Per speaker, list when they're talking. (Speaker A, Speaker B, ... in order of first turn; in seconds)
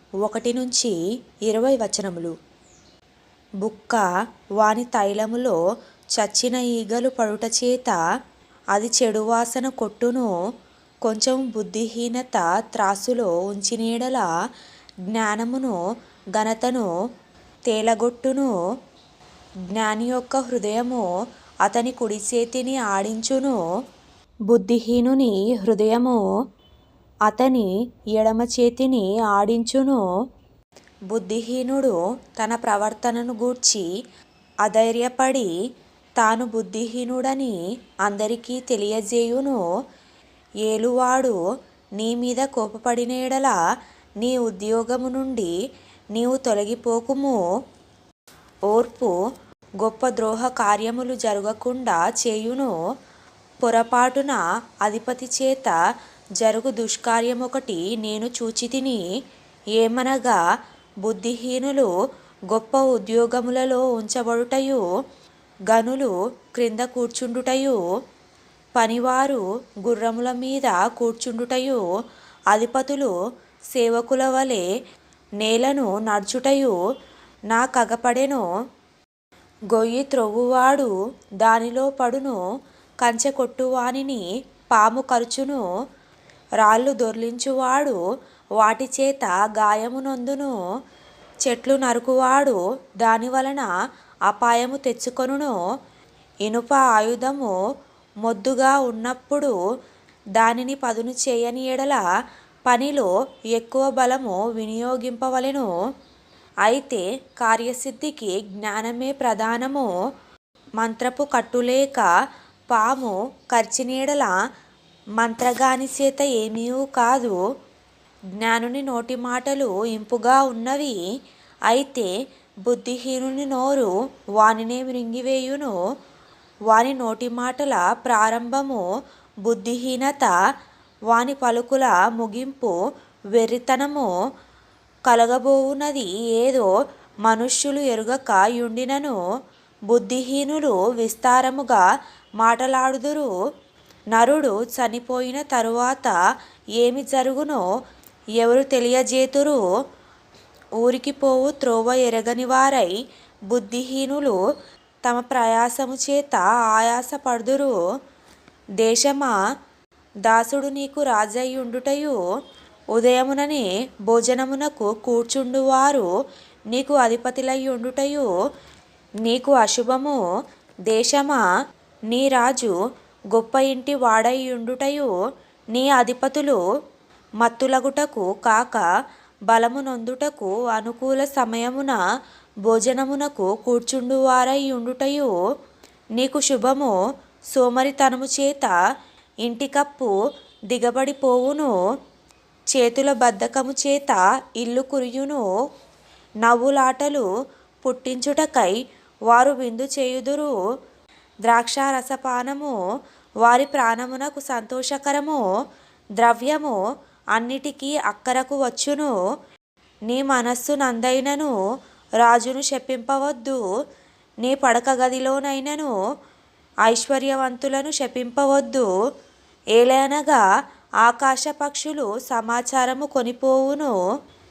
Speaker A: 0.2-0.9, 1.5-2.4, 3.6-4.0, 4.6-5.6, 6.2-8.0, 8.7-10.3, 11.0-14.3, 15.1-15.8, 16.3-16.9, 17.7-18.5, 19.7-21.1, 21.6-23.6, 24.5-26.2, 27.2-30.0, 31.1-33.9, 34.6-35.5, 36.2-39.6, 40.6-41.4, 42.0-43.6, 44.2-45.5, 46.1-47.4, 48.7-49.1, 49.8-52.7, 53.6-55.8, 56.4-59.0, 59.8-60.4, 61.0-61.9, 62.5-64.8, 65.7-67.8, 68.8-71.8, 72.5-73.1, 73.7-74.7, 75.4-76.8, 77.5-78.4, 79.7-82.4, 83.0-85.6, 86.6-88.0, 88.6-90.5, 91.4-93.7, 94.3-95.6, 96.4-97.5, 98.2-99.5, 100.4-102.0, 102.7-105.7, 106.6-109.9, 110.8-112.1, 112.7-114.3, 115.2-117.4, 118.4-121.0, 121.7-122.1, 122.6-125.8, 126.7-128.8, 129.4-130.3, 131.1-132.8, 133.3-134.1, 135.1-136.7, 137.2-139.2, 139.9-141.8, 142.4-143.3, 144.1-146.1, 146.8-147.6, 148.4-149.6, 150.8-152.9, 153.5-154.4, 155.0-157.7, 158.8-159.4, 160.2-162.2, 162.9-166.1, 166.7-168.3, 169.2-170.2, 170.9-171.4, 172.1-172.7, 173.3-175.1, 175.7-176.6, 177.4-178.8, 179.5-182.0, 182.7-185.3, 186.2-186.9, 187.5-188.7, 189.4-190.1, 190.7-191.7, 192.7-195.4, 196.4-197.3, 197.8-198.8, 199.3-200.5, 201.4-202.8, 203.4-205.4, 206.2-206.8, 207.3-209.1, 210.1-211.5, 212.2-213.6, 214.4-215.9, 216.8-218.9, 219.7-220.4, 221.0-223.9